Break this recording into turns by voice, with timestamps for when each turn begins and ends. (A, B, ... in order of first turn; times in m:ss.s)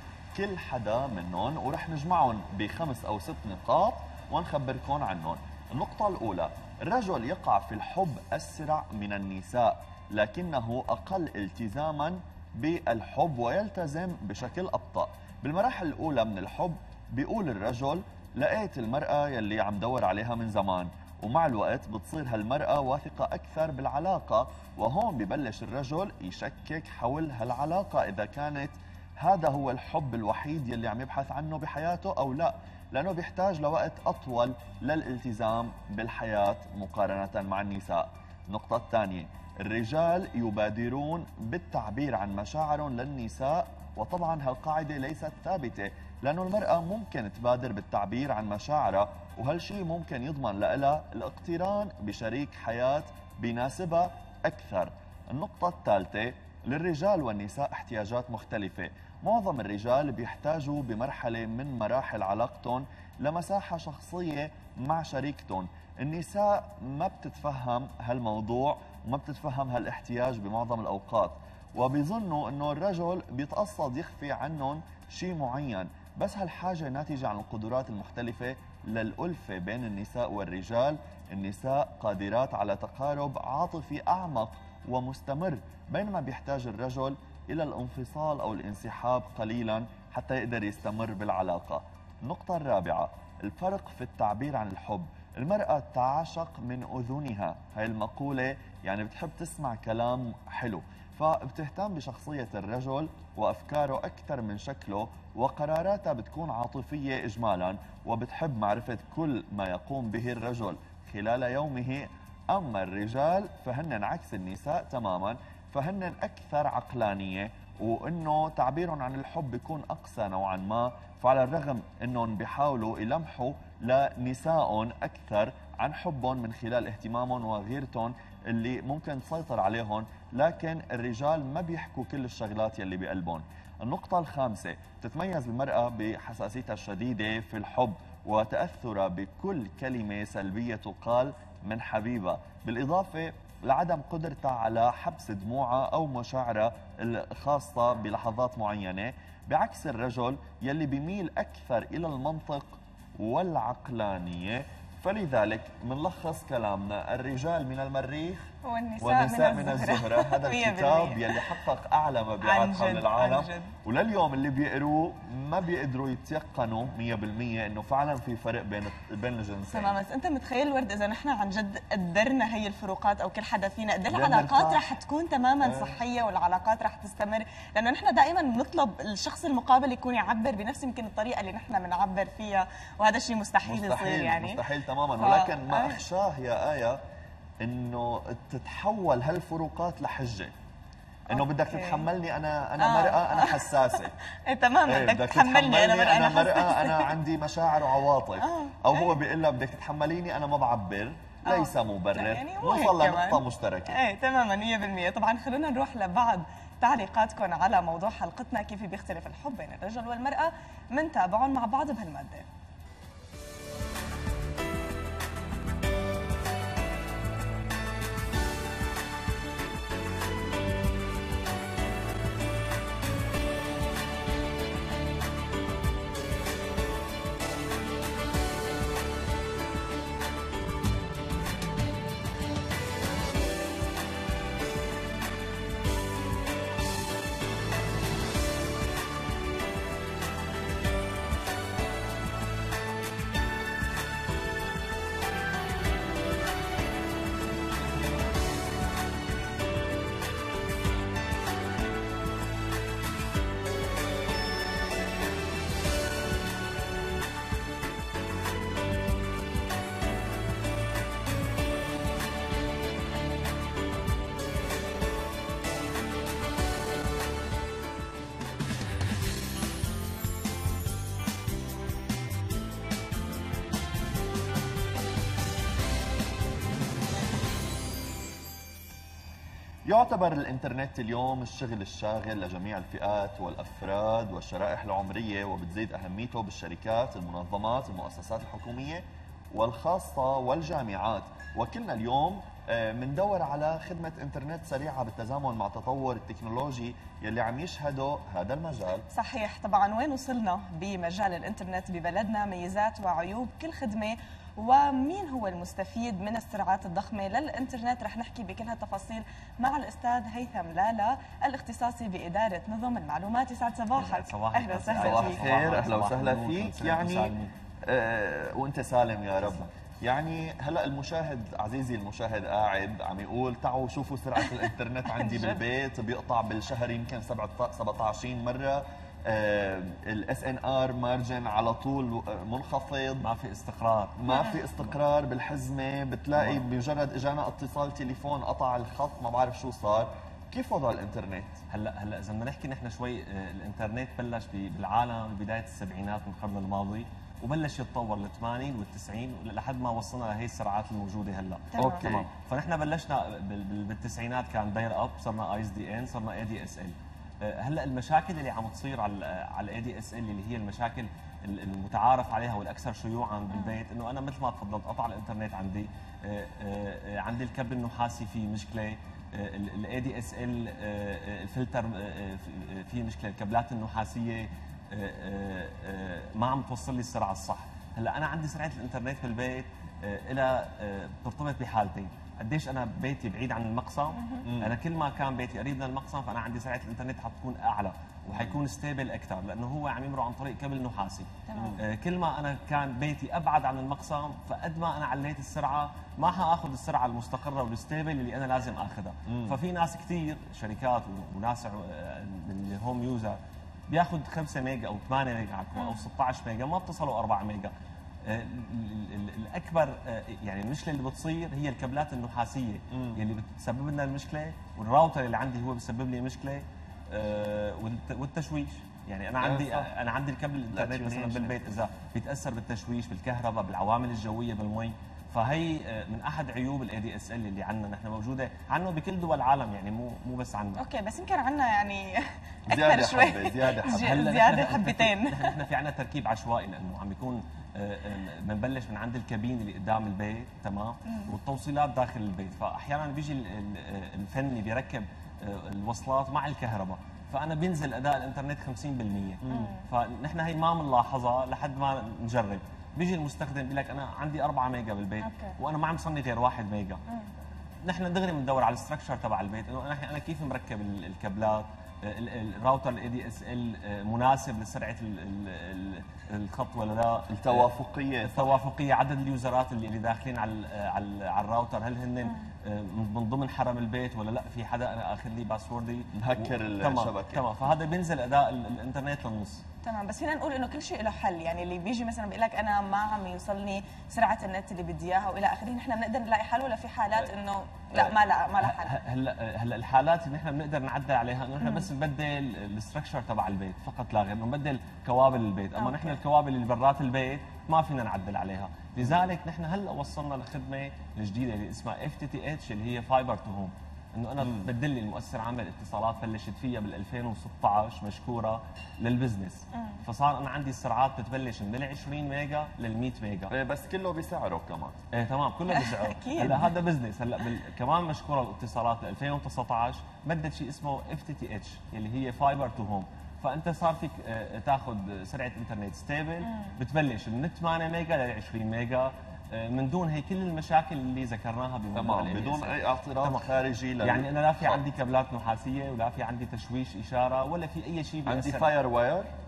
0:00.3-2:49.9 A
2:38.6-2:41.4 B
2:42.4-2:43.7 B
2:49.7-3:04.6 B
2:54.1-2:54.8 A
2:55.6-2:56.0 A
3:03.6-3:07.0 A
3:05.2-3:06.0 B
3:07.6-3:10.5 A
3:11.3-3:12.0 B
3:11.3-3:14.1 A
3:12.8-3:13.7 B
3:14.4-3:17.1 B
3:14.8-3:24.0 A
3:18.4-3:19.1 B
3:21.4-3:32.4 B
4:39.8-4:59.1 A
4:59.1-5:15.6 B
5:13.9-5:17.5 C
5:15.0-5:17.3 A
5:17.8-5:33.2 A
5:19.4-5:19.7 C
5:25.1-5:25.6 B
5:33.2-5:34.2 C
5:34.2-5:41.6 A
5:34.2-5:34.6 B
5:36.3-5:36.6 C
5:41.7-6:47.7 C
5:51.7-5:52.1 B
5:51.8-5:52.3 A
6:03.5-6:03.8 B
6:24.2-6:24.5 B
6:24.4-6:24.7 A
6:31.5-6:31.8 B
6:39.3-6:39.6 A
6:45.8-6:46.0 B
6:48.2-7:10.8 C
6:52.9-6:53.2 A
6:59.4-6:59.9 A
7:00.7-7:01.6 A
7:10.8-7:15.6 B
7:12.7-7:14.3 A
7:14.0-7:37.0 C
7:21.1-7:21.3 B
7:29.5-7:29.9 B
7:35.2-7:35.6 B
7:37.8-7:47.7 C
7:47.3-7:48.6 A
7:48.2-7:59.6 C
7:56.1-7:57.4 A
7:59.8-8:09.0 B
8:07.9-8:33.5 C
8:11.6-8:11.9 B
8:15.8-8:16.2 B
8:24.4-8:24.7 A
8:29.7-8:30.0 B
8:33.5-8:35.0 A
8:35.1-8:53.5 C
8:35.7-8:36.8 B
8:46.4-8:46.8 B
8:51.9-8:54.9 A
8:54.0-8:58.8 C
8:58.2-8:59.3 A